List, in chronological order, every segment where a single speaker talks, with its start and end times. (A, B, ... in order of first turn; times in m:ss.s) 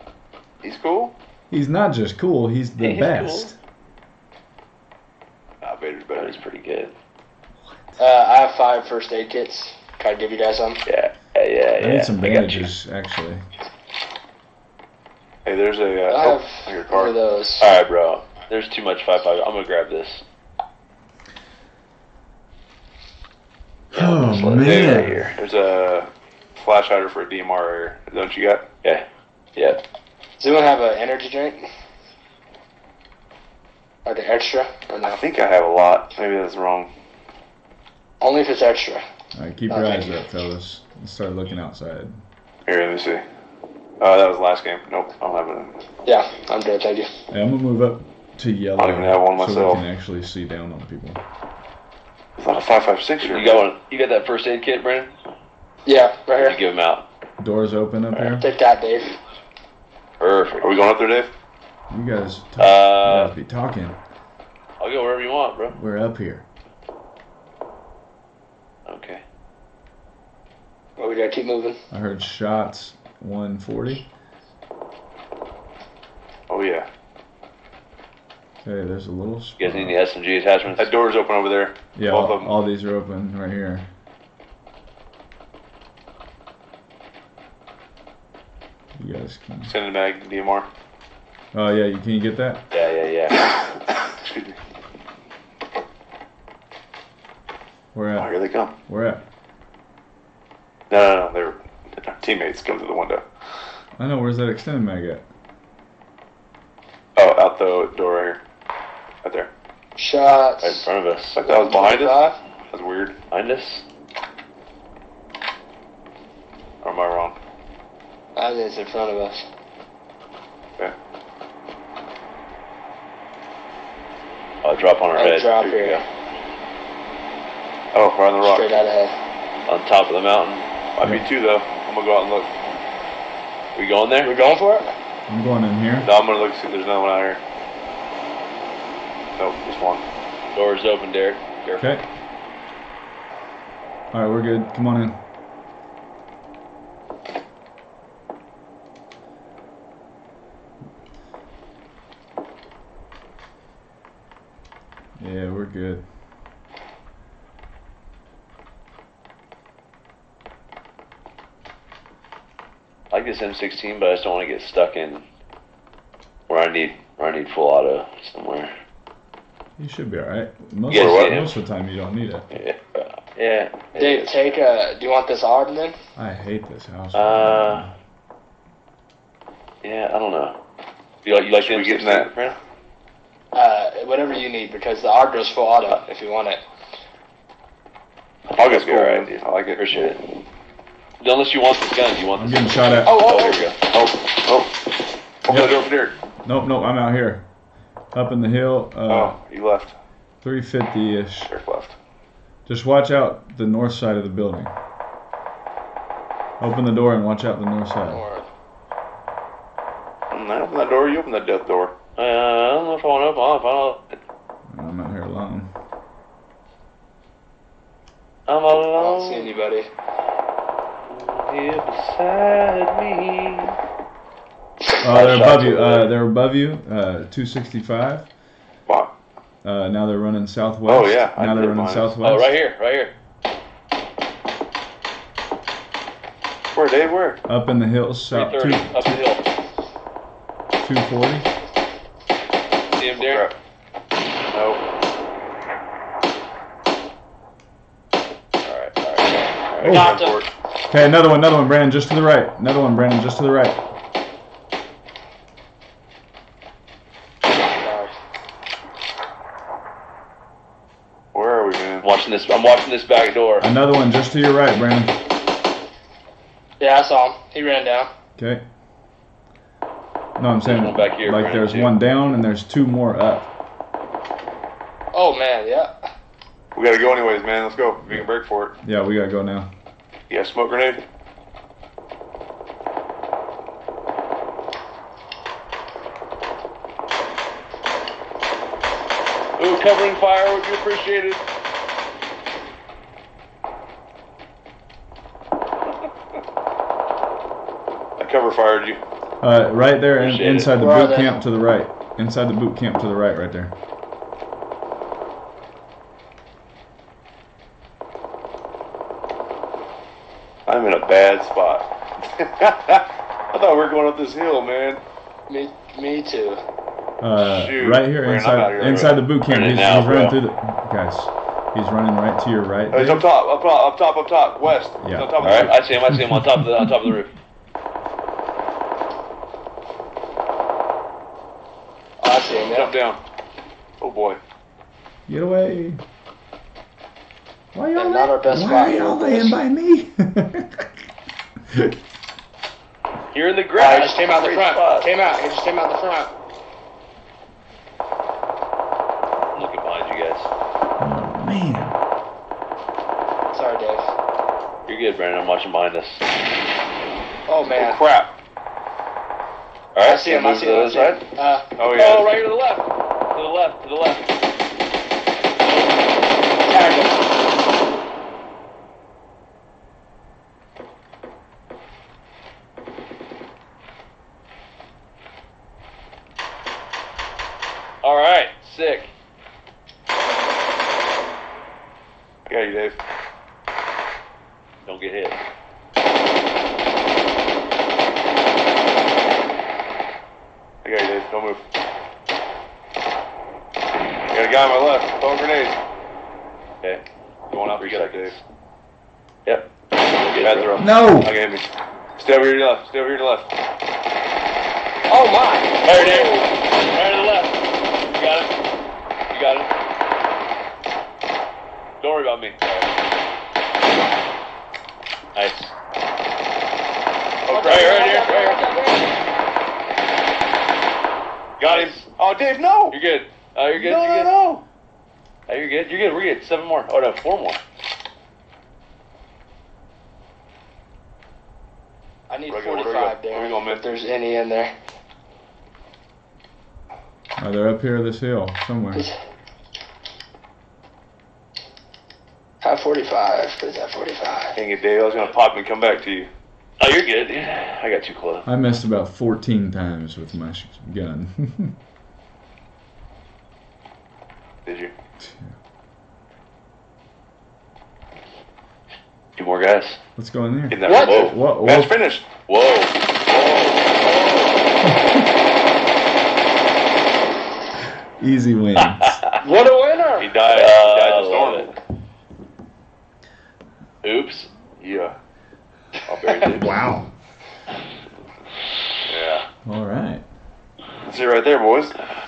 0:00.6-0:01.2 A
0:01.5-0:03.6 B
0:02.8-0:03.5 C
0:05.6-0:06.4 A
0:06.2-0:06.9 C
0:08.0-0:10.8 D
0:10.9-0:12.7 C
0:11.8-0:13.4 B
0:15.4-0:17.2 A
0:16.1-0:17.7 D
0:17.6-0:20.2 C
0:23.9-0:25.3 B
0:23.9-0:25.4 C
0:24.6-0:28.7 A
0:30.4-0:31.6 D
0:34.0-0:35.2 D
0:35.0-0:36.9 A
0:38.2-0:39.0 D
0:39.3-0:42.2 B
0:39.7-0:40.2 D
0:42.7-0:43.2 A
0:44.0-0:45.8 A
0:46.1-0:47.1 D
0:47.3-0:51.2 B
0:48.8-0:49.8 A
0:52.4-0:53.6 A
0:53.2-0:55.1 C
0:55.9-0:56.6 D
0:56.4-0:57.0 C
0:57.4-0:58.4 B
0:58.4-0:59.2 D
1:00.2-1:00.8 C
1:00.6-1:01.3 A
1:01.9-1:04.0 B
1:02.6-1:03.3 C
1:04.8-1:05.8 C
1:05.7-1:06.4 B
1:08.9-1:09.2 C
1:11.0-1:11.8 D
1:11.9-1:14.1 B
1:16.5-1:16.9 A
1:18.6-1:20.0 B
1:19.6-1:20.9 C
1:20.8-1:22.5 A
1:22.0-1:23.9 B
1:29.0-1:29.7 B
1:29.6-1:30.7 A
1:31.5-1:32.6 B
1:32.7-1:33.4 C
1:33.5-1:34.6 A
1:37.9-1:39.2 B
1:38.2-1:38.8 A
1:40.9-1:43.3 A
1:44.0-1:45.3 B
1:47.2-1:48.4 A
1:49.2-1:49.5 A
1:50.0-1:50.9 D
1:50.6-1:51.4 C
1:51.3-1:53.2 A
1:51.4-1:52.4 D
1:53.3-1:53.8 C
1:56.8-1:57.4 A
1:58.4-1:59.4 D
2:04.6-2:06.0 C
2:05.2-2:06.0 D
2:07.9-2:08.8 A
2:08.4-2:09.1 D
2:09.7-2:10.7 C
2:11.0-2:12.5 A
2:13.8-2:14.3 C
2:14.2-2:14.9 D
2:15.3-2:16.1 B
2:16.0-2:17.4 A
2:19.4-2:20.0 A
2:20.6-2:21.9 C
2:21.7-2:22.0 B
2:24.1-2:25.2 B
2:35.2-2:36.1 B
2:43.1-2:45.2 C
2:46.5-2:48.7 C
2:49.8-2:52.5 B
2:50.9-2:51.6 C
2:52.5-2:54.6 C
2:54.0-2:56.0 D
2:56.2-2:58.0 B
2:57.1-2:57.9 C
2:59.8-3:00.6 C
3:01.2-3:02.6 C
3:01.5-3:02.3 A
3:03.5-3:06.6 D
3:08.5-3:10.2 C
3:08.6-3:10.1 A
3:11.2-3:13.8 C
3:12.4-3:13.2 B
3:13.0-3:13.7 D
3:13.9-3:14.7 A
3:15.4-3:16.2 A
3:15.5-3:15.8 B
3:16.4-3:17.5 B
3:18.1-3:19.4 B
3:19.1-3:20.0 A
3:20.4-3:21.6 B
3:21.5-3:22.0 A
3:22.7-3:24.7 B
3:26.6-3:28.2 B
3:28.1-3:28.5 D
3:30.3-3:32.0 A
3:32.2-3:34.2 C
3:34.7-3:35.7 B
3:38.5-3:39.5 C
3:38.9-3:39.9 D
3:41.1-3:43.8 C
3:45.0-3:45.3 D
3:45.0-3:48.3 B
3:45.1-3:46.1 C
3:45.2-3:45.5 A
3:48.9-3:49.1 A
3:49.6-3:52.6 B
3:50.9-3:52.2 A
3:52.2-3:53.2 C
3:56.7-3:57.4 A
3:57.5-3:59.2 B
3:58.3-3:59.4 C
4:00.8-4:01.5 B
4:03.0-4:03.5 C
4:03.2-4:03.6 A
4:04.5-4:04.8 A
4:08.6-4:10.2 C
4:09.8-4:10.5 A
4:09.8-4:10.2 B
4:09.9-4:10.4 D
4:10.9-4:13.8 B
4:17.8-4:18.1 D
4:21.3-4:22.1 A
4:22.0-4:23.7 C
4:23.6-4:25.2 B
4:26.8-4:28.1 D
4:28.4-4:28.6 B
4:30.4-4:33.5 B
4:30.6-4:31.9 C
4:35.1-4:36.0 D
4:36.8-4:38.8 A
4:38.8-4:39.7 B
4:40.3-4:41.0 A
4:49.6-4:51.4 C
4:58.2-4:59.0 A
4:59.4-5:03.8 B
5:00.2-5:00.7 C
5:00.7-5:01.3 D
5:10.7-5:15.0 A
5:15.5-5:16.6 D
5:17.2-5:23.3 B
5:17.4-5:19.2 A
5:19.4-5:20.4 C
5:22.9-5:25.8 A
5:25.0-5:27.2 B
5:25.4-5:27.3 C
5:32.2-5:32.9 D
5:32.7-5:33.2 A
5:34.0-5:34.4 A
5:35.3-5:36.0 B
5:37.7-5:40.9 B
5:38.0-5:39.6 D
5:41.7-5:42.0 B
5:43.3-5:45.1 C
5:43.8-5:46.3 D
5:49.5-5:50.5 C
5:51.0-5:52.0 B
5:53.5-5:54.1 D
5:54.9-5:56.2 C
5:57.5-5:58.0 D
5:57.7-5:58.3 A
6:00.0-6:01.2 C
6:00.0-6:01.7 D
6:01.8-6:02.4 A
6:01.9-6:04.3 C
6:06.7-6:07.3 D
6:18.0-6:19.1 C
6:22.5-6:23.0 A
6:24.9-6:25.4 C
6:30.8-6:31.6 A
6:34.3-6:35.8 A
6:37.5-6:38.4 A
6:37.8-6:38.4 C
6:39.4-6:40.7 C
6:40.4-6:43.5 A
6:40.8-6:41.3 B
6:45.1-6:46.5 D
6:45.8-6:48.5 C
6:49.3-6:49.7 C
6:52.0-6:52.9 C
6:55.4-6:55.7 C
6:57.4-6:58.0 A
6:57.5-6:59.1 D
6:57.6-6:58.6 C
7:01.6-7:03.0 A
7:01.6-7:02.1 C
7:02.9-7:04.3 C
7:03.7-7:04.6 A
7:05.5-7:07.6 C
7:12.3-7:14.7 D
7:12.5-7:13.8 A
7:17.4-7:19.0 B
7:22.6-7:24.6 D
7:24.6-7:26.3 A
7:26.8-7:28.5 C
7:28.5-7:31.8 B
7:34.6-7:34.9 A
7:35.2-7:35.6 B
7:39.4-7:40.0 C
7:40.2-7:42.0 B
7:40.7-7:42.3 A
7:40.9-7:41.3 D
7:41.0-7:41.3 C
7:42.5-7:44.6 C
7:44.9-7:45.2 B
7:48.2-7:49.2 B
7:48.8-7:49.4 C
7:49.4-7:50.3 D
7:50.2-7:51.7 A
7:50.5-7:51.7 C
7:54.0-7:54.5 C
7:54.8-7:55.2 A
7:56.1-7:56.8 C
7:56.6-7:57.1 B
7:59.1-7:59.5 A
7:59.6-8:00.2 B
8:01.1-8:02.0 A